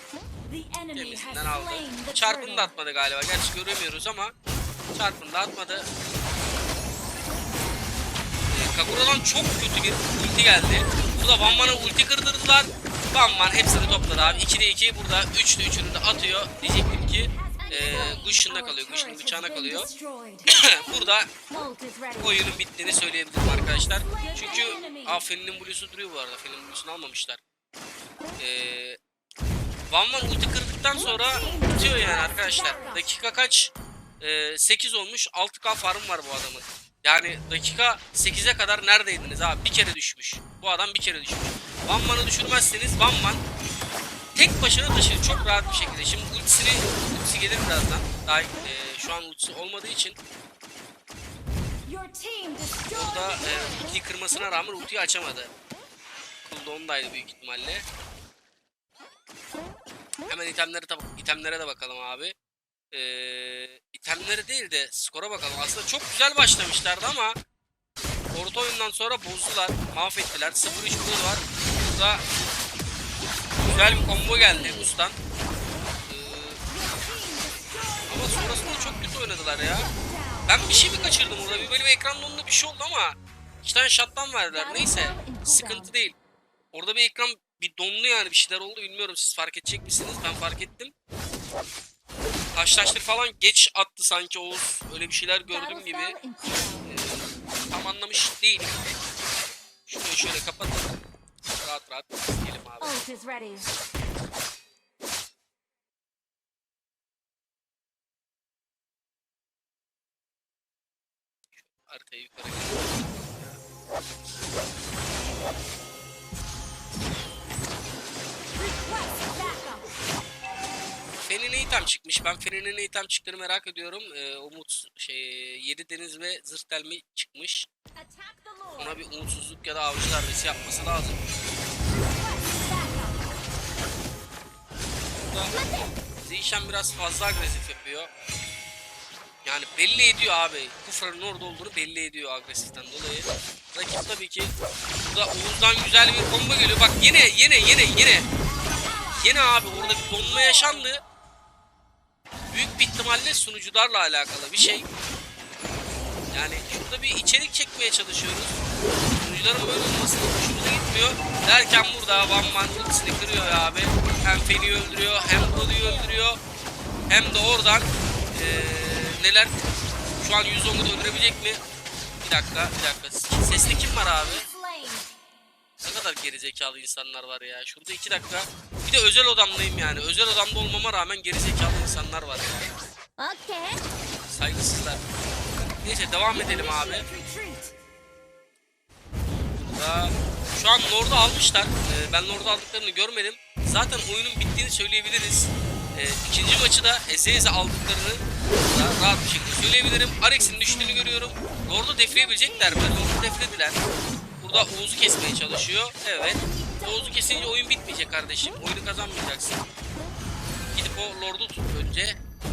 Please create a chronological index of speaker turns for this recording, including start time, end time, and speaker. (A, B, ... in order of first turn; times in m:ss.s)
0:00.5-0:02.7 A
0:01.0-0:04.3 B
0:05.0-0:05.9 B
0:08.5-0:19.9 B
0:10.8-0:12.0 A
0:13.4-0:14.5 A
0:16.1-0:22.6 A
0:20.5-0:21.3 B
0:22.2-0:27.4 B
0:23.5-0:25.2 A
0:28.4-0:29.0 B
0:29.9-0:43.4 B
0:31.0-0:33.0 A
0:44.4-0:50.2 B
0:44.9-0:46.0 A
0:51.8-0:53.9 A
0:52.9-0:55.5 B
0:56.4-0:57.9 B
1:00.3-1:02.4 B
1:02.9-1:07.4 B
1:08.3-1:12.2 B
1:13.6-1:15.2 B
1:13.6-1:15.0 A
1:16.1-1:16.6 B
1:16.7-1:19.1 A
1:18.1-1:19.9 B
1:19.9-1:21.8 A
1:20.5-1:26.2 B
1:24.5-1:25.9 A
1:26.7-1:30.9 B
1:32.5-1:36.2 B
1:35.5-1:36.9 A
1:36.8-1:38.9 B
1:39.9-1:40.9 B
1:41.6-1:42.9 B
1:42.8-1:43.7 A
1:51.6-1:53.6 B
1:58.5-1:59.9 A
2:01.2-2:07.7 B
2:08.0-2:09.0 A
2:08.8-2:11.5 B
2:11.9-2:13.3 A
2:15.2-2:15.5 B
2:15.5-2:15.9 A
2:16.2-2:18.1 B
2:19.4-2:24.5 B
2:25.0-2:28.3 B
2:28.4-2:30.9 A
2:29.2-2:31.0 B
2:32.5-2:34.9 B
2:36.3-2:38.6 B
2:39.2-2:46.4 B
2:42.0-2:46.2 A
2:47.1-2:49.6 B
2:50.2-2:51.6 B
2:52.2-2:54.4 B
2:54.1-2:55.1 A
2:55.8-3:02.7 B
3:03.2-3:03.8 A
3:04.3-3:05.1 B
3:05.8-3:07.1 B
3:06.2-3:07.7 A
3:09.6-3:23.8 B
3:20.6-3:21.1 A
3:22.1-3:23.6 A
3:24.4-3:29.6 B
3:26.3-3:27.6 A
3:30.7-3:32.2 B